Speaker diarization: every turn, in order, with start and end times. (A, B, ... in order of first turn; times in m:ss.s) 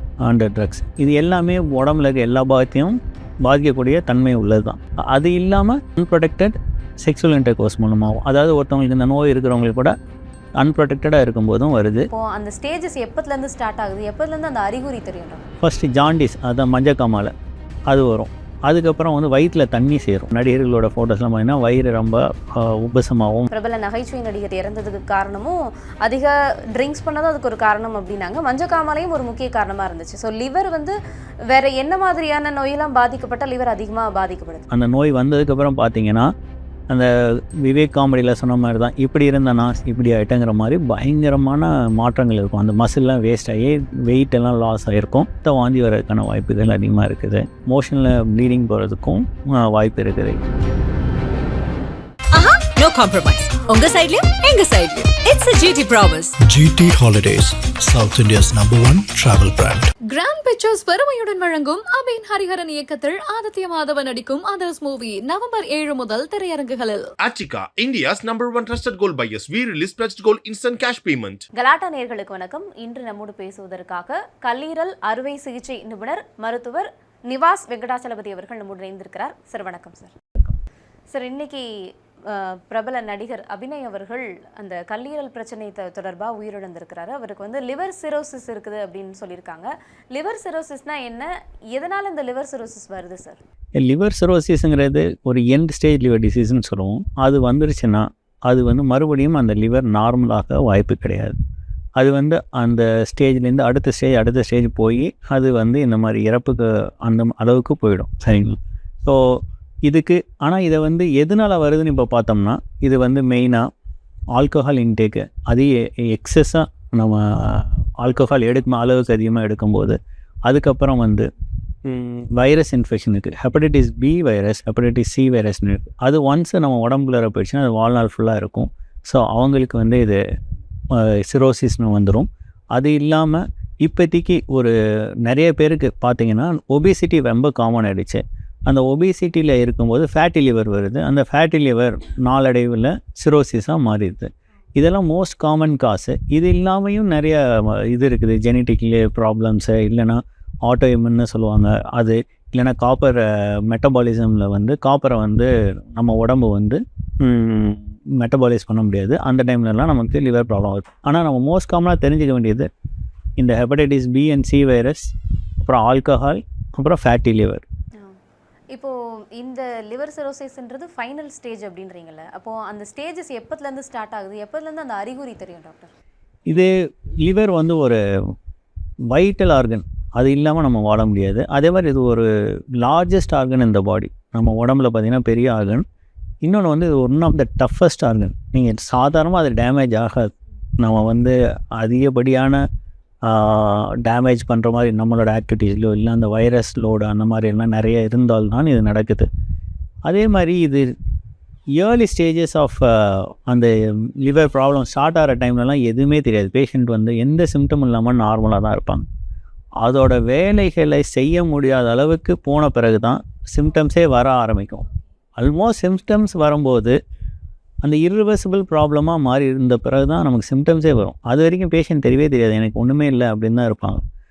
0:00.2-0:09.9 A
0:10.6-0:12.1 A
0:12.1-0:15.5 B
0:15.6-0:17.3 A
0:17.9-0:23.5 A
0:23.5-0:31.0 B
0:31.5-0:34.7 B
0:34.7-0:36.3 A
0:36.9-0:50.4 A
0:52.3-0:56.3 C
0:56.4-0:59.9 D
1:00.1-1:07.1 E
1:07.2-1:11.4 F
1:11.6-1:20.5 B
1:21.1-1:21.7 B
1:22.3-1:33.4 B
1:33.8-1:41.4 A
1:42.0-1:49.2 A
1:49.8-1:53.6 A
1:54.3-2:01.2 A
2:01.9-2:10.2 A
2:10.9-2:14.7 A
2:15.2-2:42.7 A
2:43.4-2:47.6 A
2:48.7-2:55.9 B
2:56.5-2:58.0 A
2:59.1-3:02.3 A
3:02.8-3:05.8 A
3:06.4-3:12.6 A
3:13.2-3:19.3 A
3:20.1-3:20.9 A
3:21.8-3:29.0 A
3:29.8-3:34.8 A
3:35.4-3:36.9 A
3:37.8-3:44.0 A